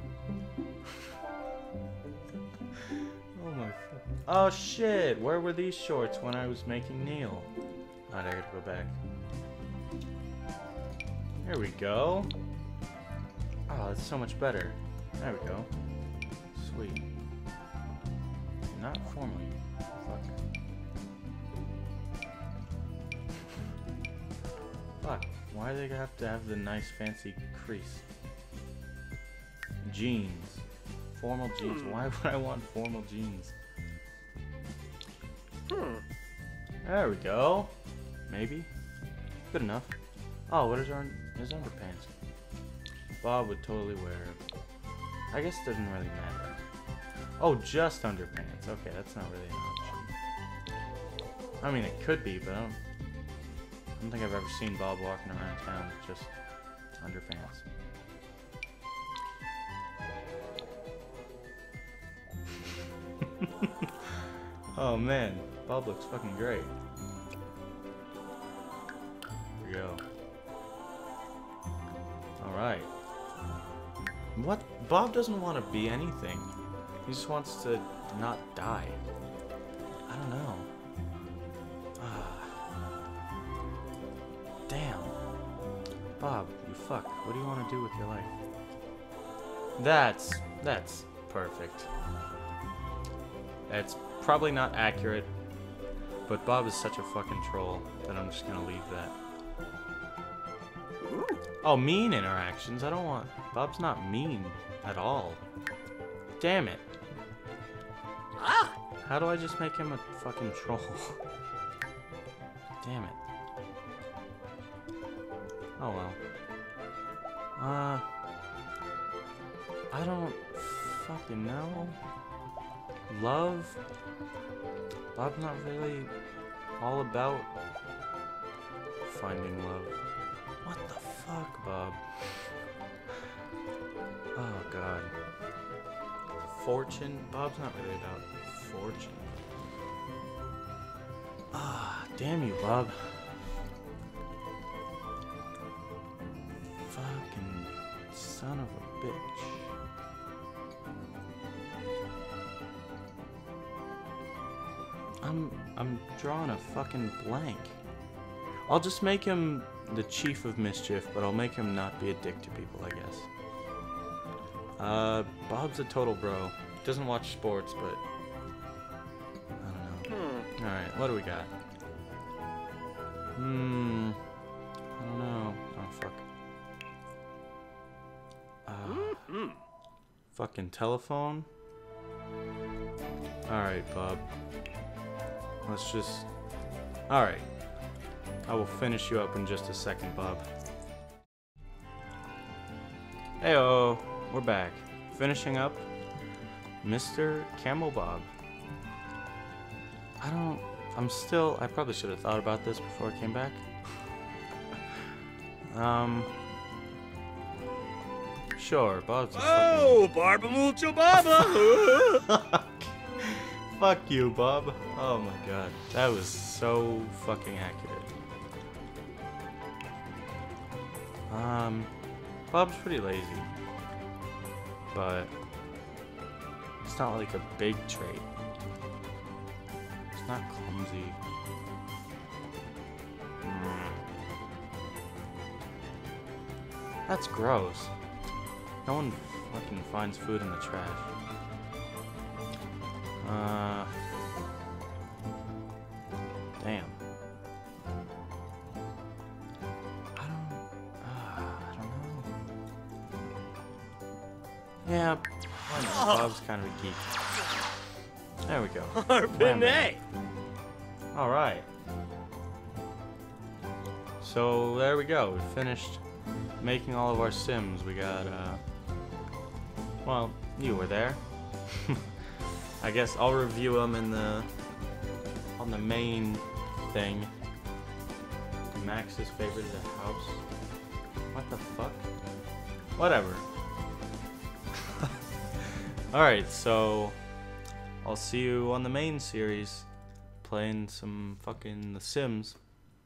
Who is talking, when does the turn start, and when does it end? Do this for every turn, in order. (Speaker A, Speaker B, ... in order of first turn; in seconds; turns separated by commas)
Speaker A: 2.9-7.5, Speaker A: 8.1-8.9, Speaker A: 11.4-12.3, Speaker A: 13.7-15.7, Speaker A: 16.5-17.0, Speaker A: 18.7-20.3, Speaker A: 25.0-28.0, Speaker A: 29.8-33.5, Speaker B: 31.6-31.9, Speaker B: 35.7-36.0, Speaker A: 36.8-37.7, Speaker A: 38.3-38.7, Speaker A: 39.5-39.9, Speaker A: 40.5-42.1, Speaker A: 43.2-44.4, Speaker A: 45.3-46.6, Speaker A: 47.4-50.1, Speaker A: 51.6-52.8, Speaker A: 54.0-56.3, Speaker A: 57.0-57.6, Speaker A: 63.2-66.7, Speaker A: 69.6-70.0, Speaker A: 72.4-72.9, Speaker A: 74.3-76.5, Speaker A: 77.0-79.0, Speaker A: 80.1-80.7, Speaker A: 82.0-82.6, Speaker A: 84.7-85.1, Speaker A: 86.2-88.3, Speaker A: 89.8-91.9, Speaker A: 93.7-95.3, Speaker A: 96.2-99.2, Speaker B: 101.0-101.4, Speaker A: 101.6-105.4, Speaker A: 106.4-106.8, Speaker B: 108.4-108.8, Speaker A: 109.0-111.2, Speaker A: 112.8-113.2, Speaker A: 115.8-116.2, Speaker A: 117.5-118.0, Speaker A: 119.9-122.0, Speaker A: 123.1-123.8, Speaker A: 125.1-126.1, Speaker A: 126.8-127.5, Speaker A: 129.0-129.9, Speaker A: 130.6-132.5, Speaker A: 134.3-135.1, Speaker A: 136.4-139.3, Speaker A: 141.5-143.3, Speaker A: 146.8-149.7, Speaker A: 155.2-157.8, Speaker A: 158.7-163.3, Speaker A: 164.8-168.0, Speaker A: 169.6-171.5, Speaker B: 170.1-170.5, Speaker A: 173.3-174.2, Speaker A: 175.0-176.2, Speaker A: 178.7-179.3, Speaker B: 178.8-179.6, Speaker A: 180.3-181.5, Speaker A: 183.5-184.2, Speaker A: 185.6-186.3, Speaker A: 187.1-187.5, Speaker A: 188.5-190.5, Speaker A: 193.4-195.8, Speaker A: 196.8-198.3, Speaker A: 200.2-203.6, Speaker A: 205.7-206.3, Speaker A: 208.6-210.1, Speaker B: 209.3-212.3, Speaker A: 211.1-218.1, Speaker A: 221.3-221.9, Speaker A: 222.5-223.6, Speaker A: 224.9-225.3, Speaker A: 226.8-228.2, Speaker A: 230.1-231.2, Speaker A: 233.4-234.0, Speaker A: 237.1-237.9, Speaker A: 238.8-241.1, Speaker A: 243.2-243.9, Speaker A: 246.6-247.0, Speaker A: 250.2-252.3, Speaker A: 254.8-257.1, Speaker A: 258.4-259.9, Speaker B: 258.9-260.0, Speaker A: 261.1-261.7, Speaker A: 264.2-266.0, Speaker A: 266.6-268.6, Speaker A: 270.0-272.0, Speaker A: 272.8-274.5, Speaker A: 275.6-277.3, Speaker A: 278.7-280.4, Speaker A: 281.3-282.1, Speaker A: 282.9-283.4, Speaker A: 284.8-287.2, Speaker A: 288.0-289.9, Speaker A: 290.4-292.6